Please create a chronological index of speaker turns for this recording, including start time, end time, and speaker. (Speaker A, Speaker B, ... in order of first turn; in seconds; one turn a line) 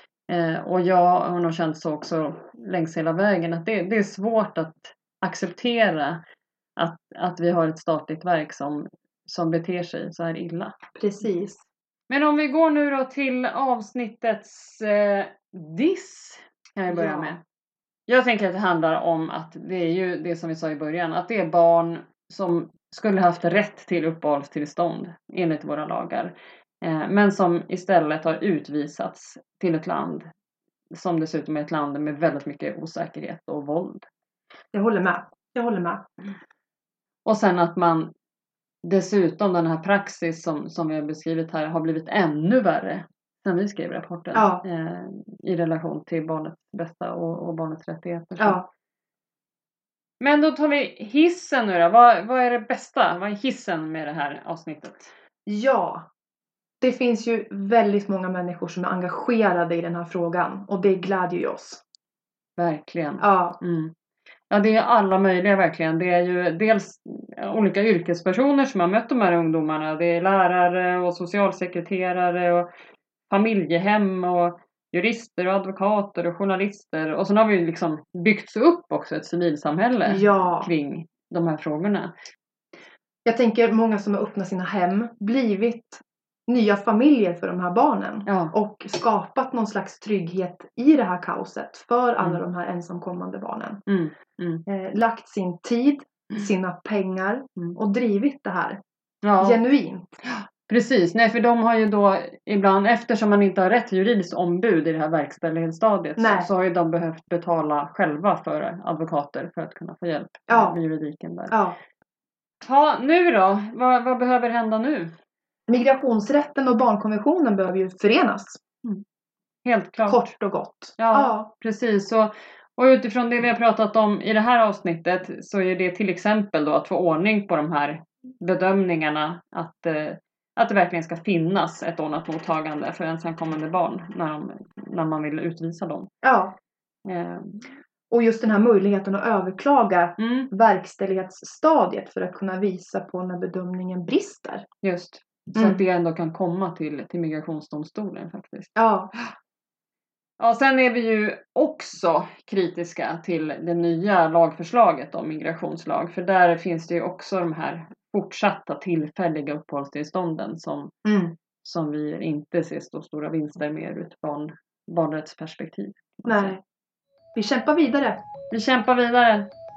Speaker A: 0.3-6.2
Speaker A: 6.8-10.7
Speaker B: 11.0-11.6
Speaker A: 12.1-17.4
Speaker B: 16.9-17.4
Speaker A: 18.1-30.3
Speaker A: 30.9-34.1
Speaker B: 34.7-36.0
Speaker A: 37.2-38.1
Speaker A: 38.8-48.6
Speaker B: 44.3-44.6
Speaker B: 48.4-48.7
Speaker A: 50.2-55.1
Speaker B: 55.5-56.1
Speaker B: 56.8-61.8
Speaker A: 62.6-63.9
Speaker B: 63.2-63.6
Speaker A: 64.5-72.7
Speaker A: 73.3-82.1
Speaker B: 80.0-80.7
Speaker B: 83.2-93.8
Speaker A: 88.3-88.5
Speaker A: 93.9-94.6
Speaker B: 94.7-98.8
Speaker A: 99.2-99.6
Speaker B: 99.4-100.0
Speaker A: 100.2-111.5
Speaker B: 106.2-106.5
Speaker B: 110.5-110.8
Speaker B: 111.5-111.8
Speaker A: 112.6-115.1
Speaker B: 115.7-118.6
Speaker A: 119.6-120.2
Speaker B: 120.0-121.5
Speaker A: 121.0-136.1
Speaker B: 136.2-136.5
Speaker A: 137.1-137.6
Speaker B: 138.1-144.7
Speaker A: 140.2-140.5
Speaker A: 144.8-149.3
Speaker B: 145.5-145.8
Speaker B: 148.8-149.1
Speaker A: 150.4-160.9
Speaker B: 161.0-161.3
Speaker A: 161.6-166.5
Speaker B: 166.2-166.6
Speaker B: 167.3-168.2
Speaker A: 168.5-169.5